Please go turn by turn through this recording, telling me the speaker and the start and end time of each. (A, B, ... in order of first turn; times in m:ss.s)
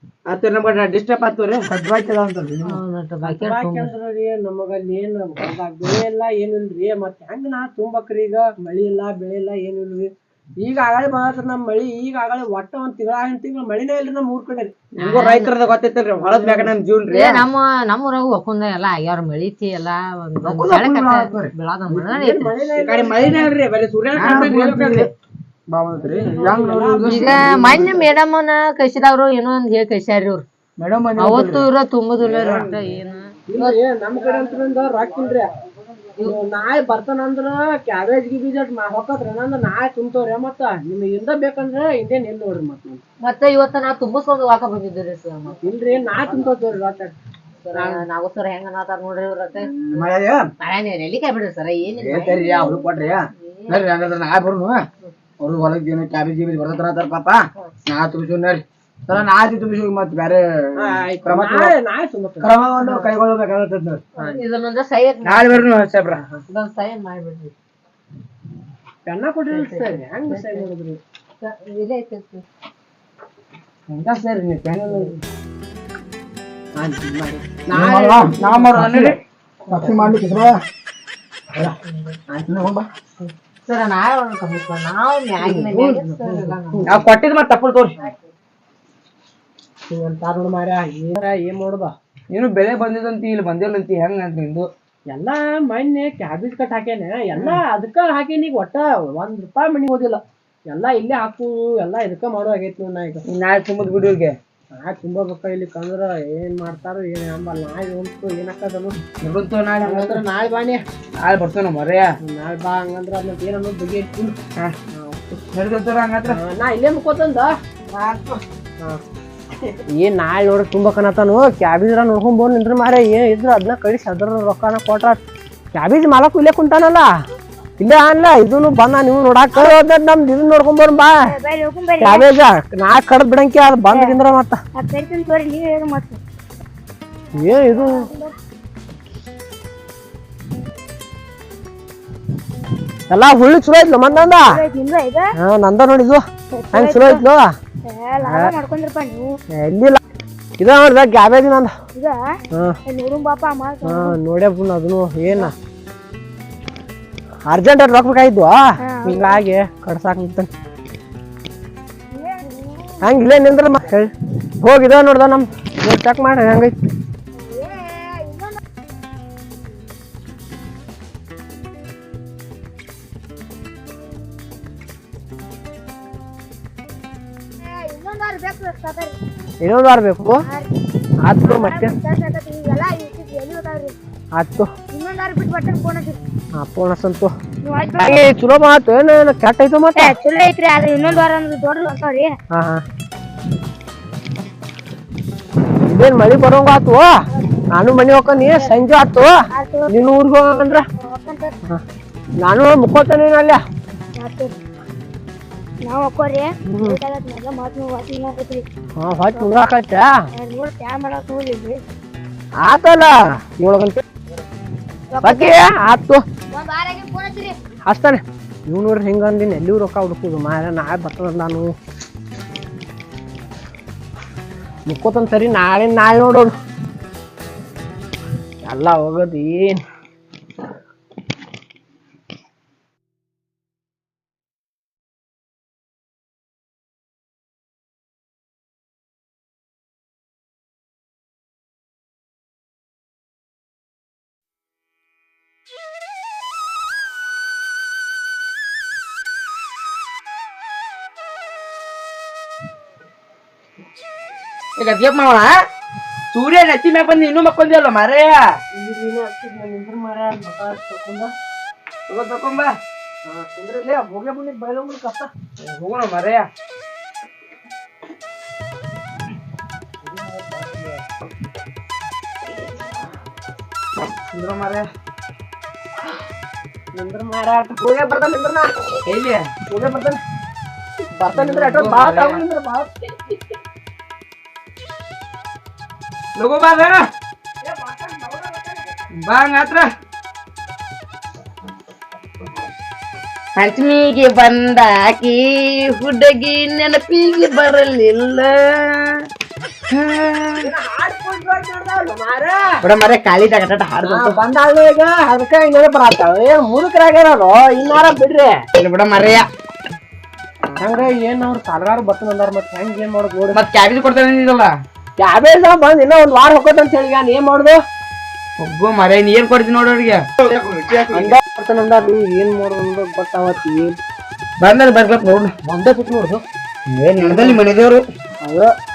0:00.2-0:01.7 A
0:01.7-0:02.8 B
0:02.6-0:03.9 C
0:03.2-0:14.9 D
0:14.9-0:17.4 A
0:15.0-0:15.5 C
0:16.2-0:16.7 D
0:17.1-0:22.5 C
0:20.4-0:21.5 B
0:21.9-0:23.5 D
0:22.8-0:25.1 A
0:24.1-0:25.1 B
0:25.7-0:28.0 B
0:26.0-0:27.9 D
0:26.1-0:27.8 A
0:27.0-0:30.4 C
0:30.8-0:31.6 A
0:31.2-0:33.8 C
0:31.3-0:31.6 B
0:32.2-0:32.7 A
0:33.5-0:35.5 D
0:36.2-0:43.0 D
0:43.2-0:45.6 C
0:45.6-0:47.1 D
0:47.6-0:49.7 C
0:47.7-0:48.0 D
0:49.6-0:50.5 B
0:50.6-0:53.8 C
0:52.0-0:54.8 B
0:55.4-1:01.7 B
1:00.8-1:02.5 D
1:02.4-1:04.0 B
1:02.8-1:03.1 C
1:04.2-1:04.4 D
1:04.2-1:05.7 C
1:05.2-1:06.2 A
1:06.3-1:07.5 C
1:09.0-1:11.0 D
1:09.5-1:10.7 C
1:11.4-1:12.4 C
1:13.9-1:15.2 A
1:16.8-1:19.0 D
1:17.7-1:18.4 B
1:18.4-1:19.2 A
1:19.7-1:20.5 C
1:19.7-1:20.6 B
1:21.8-1:22.2 C
1:22.5-1:22.9 B
1:23.2-1:27.0 C
1:25.4-1:26.9 D
1:26.8-1:28.0 A
1:29.9-1:31.9 D
1:32.3-1:34.7 A
1:35.1-1:43.2 D
1:43.3-1:44.3 A
1:44.7-1:49.0 D
1:49.2-1:50.2 A
1:49.8-1:50.8 D
1:51.2-1:52.1 A
1:52.2-1:54.4 D
1:54.9-1:55.2 D
1:55.5-1:56.4 A
1:56.3-1:57.5 D
1:57.9-1:58.4 A
1:59.9-2:05.2 D
2:05.7-2:07.1 D
2:07.8-2:11.3 D
2:11.2-2:12.2 E
2:12.0-2:14.6 D
2:13.9-2:14.2 E
2:14.7-2:16.2 E
2:17.3-2:18.1 D
2:17.4-2:18.3 E
2:23.1-2:24.6 D
2:24.1-2:25.3 E
2:25.4-2:27.5 D
2:26.5-2:27.2 E
2:27.8-2:29.3 E
2:28.2-2:28.6 D
2:29.5-2:30.0 D
2:30.6-2:31.8 D
2:31.9-2:32.2 E
2:32.9-2:34.2 E
2:33.8-2:35.5 D
2:37.5-2:40.5 D
2:38.8-2:39.4 E
2:42.1-2:43.0 E
2:43.0-2:46.8 D
2:47.4-2:48.6 E
2:57.6-2:59.2 E
2:59.6-3:00.4 D
3:01.2-3:02.0 D
3:01.4-3:03.9 E
3:04.3-3:04.7 D
3:04.9-3:06.2 E
3:06.5-3:07.3 D
3:07.6-3:08.2 E
3:08.0-3:10.2 D
3:10.0-3:12.3 E
3:12.5-3:12.8 D
3:15.8-3:17.1 D
3:17.7-3:20.8 D
3:19.5-3:20.0 E
3:20.7-3:21.6 E
3:22.4-3:23.6 D
3:24.1-3:24.6 E
3:25.8-3:28.6 E
3:26.6-3:27.0 D
3:29.0-3:30.3 D
3:29.3-3:29.6 E
3:30.3-3:31.8 E
3:32.6-3:34.0 D
3:35.1-3:35.6 E
3:35.2-3:36.2 D
3:36.5-3:37.6 E
3:37.8-3:41.7 D
3:44.8-3:46.5 D
3:48.6-3:49.8 D
4:14.8-4:15.6 A
4:16.3-4:18.4 A
4:18.7-4:21.3 D
4:22.1-4:22.8 A
4:23.2-4:25.3 D
4:25.6-4:26.4 A
4:30.0-4:31.0 D
4:34.0-4:34.9 A
4:36.9-4:38.8 D
4:39.1-4:39.4 A
4:39.7-4:40.2 D
4:41.1-4:43.5 D
4:41.3-4:42.4 A
4:46.4-4:47.0 A
4:47.6-4:49.0 D
4:49.2-4:49.9 A
4:53.6-4:59.0 A
4:59.9-5:00.7 A
5:00.6-5:02.6 D
5:02.8-5:04.4 A
5:04.0-5:08.5 D
5:08.7-5:09.4 A
5:10.8-5:13.6 D
5:13.5-5:14.7 A
5:15.2-5:17.8 D
5:18.6-5:20.3 A
5:20.4-5:21.3 B
5:21.1-5:24.0 D
5:24.6-5:25.5 A
5:25.6-5:26.4 D
5:26.9-5:28.0 A
5:27.2-5:27.6 D
5:28.4-5:28.7 D